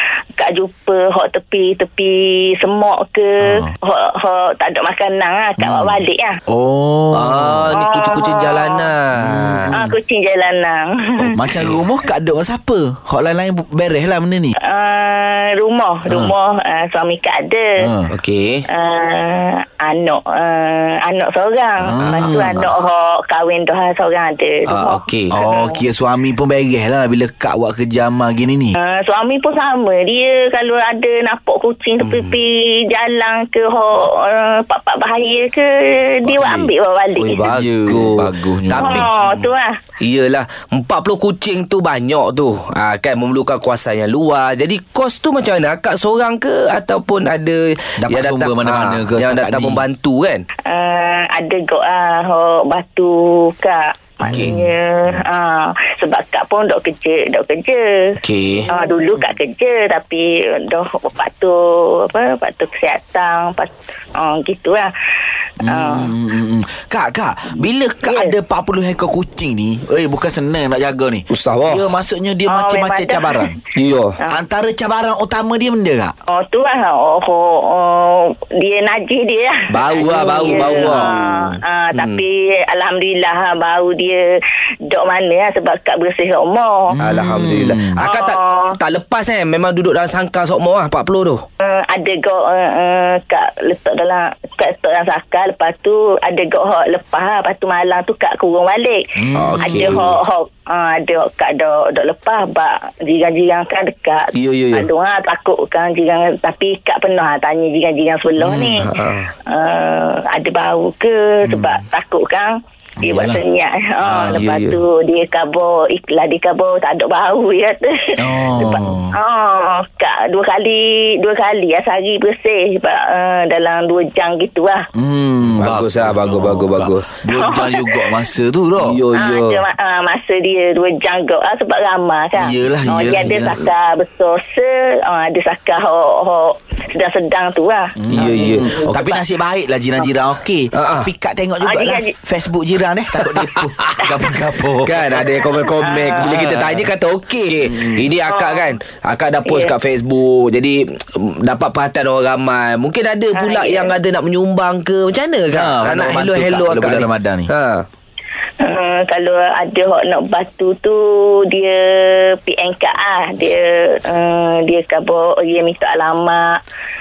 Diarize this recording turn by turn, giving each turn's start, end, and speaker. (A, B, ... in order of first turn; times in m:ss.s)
0:00.4-0:06.4 A
0:03.4-0:03.7 B
0:05.6-0:07.7 B
0:07.1-0:09.8 C
0:07.7-0:08.9 A
0:09.1-0:09.9 B
0:09.7-0:11.4 A
0:11.2-0:14.5 B
0:14.6-0:17.8 A
0:16.1-0:16.3 B
0:17.8-0:18.1 B
0:18.1-0:18.6 C
0:18.7-0:25.8 A
0:21.8-0:22.7 B
0:22.2-0:22.6 C
0:24.7-0:25.4 C
0:25.3-0:28.8 B
0:28.8-0:37.5 A
0:32.0-0:32.3 C
0:36.2-0:36.7 B
0:37.2-0:39.1 C
0:37.4-0:39.4 B
0:38.8-0:39.8 A
0:40.0-0:50.4 C
0:48.0-0:49.8 B
0:50.7-0:57.8 A
0:54.2-0:54.7 B
0:54.3-0:54.6 C
0:58.2-0:58.7 C
0:58.7-1:04.9 A
1:05.6-1:13.6 B
1:05.7-1:06.1 A
1:08.0-1:08.3 A
1:11.3-1:11.8 C
1:12.5-1:13.5 A
1:13.7-1:14.2 C
1:14.3-1:16.1 B
1:16.3-1:24.2 A
1:19.7-1:22.2 C
1:24.8-1:27.0 A
1:26.9-1:28.0 B
1:27.0-1:31.4 C
1:28.0-1:28.7 A
1:31.6-1:39.0 A
1:39.2-1:40.0 B
1:39.3-1:40.1 C
1:39.6-1:48.8 A
1:44.3-1:44.9 C
1:48.4-1:48.8 B
1:48.8-1:49.3 C
1:49.5-2:04.8 A
1:51.4-1:51.7 B
1:53.0-1:53.4 B
1:54.0-1:54.4 B
1:54.3-1:54.8 C
1:58.2-1:59.1 B
2:05.0-2:09.0 B
2:05.6-2:07.1 C
2:07.3-2:08.0 A
2:08.8-2:09.6 C
2:09.1-2:19.2 A
2:12.4-2:13.6 B
2:18.0-2:25.3 B
2:18.1-2:18.8 C
2:20.7-2:21.1 C
2:21.6-2:22.1 A
2:23.2-2:24.0 C
2:24.8-2:37.8 C
2:25.8-2:26.3 A
2:26.2-2:26.9 B
2:27.6-2:28.1 B
2:28.3-2:28.7 A
2:33.4-2:33.9 A
2:35.5-2:37.5 B
2:38.6-2:46.6 A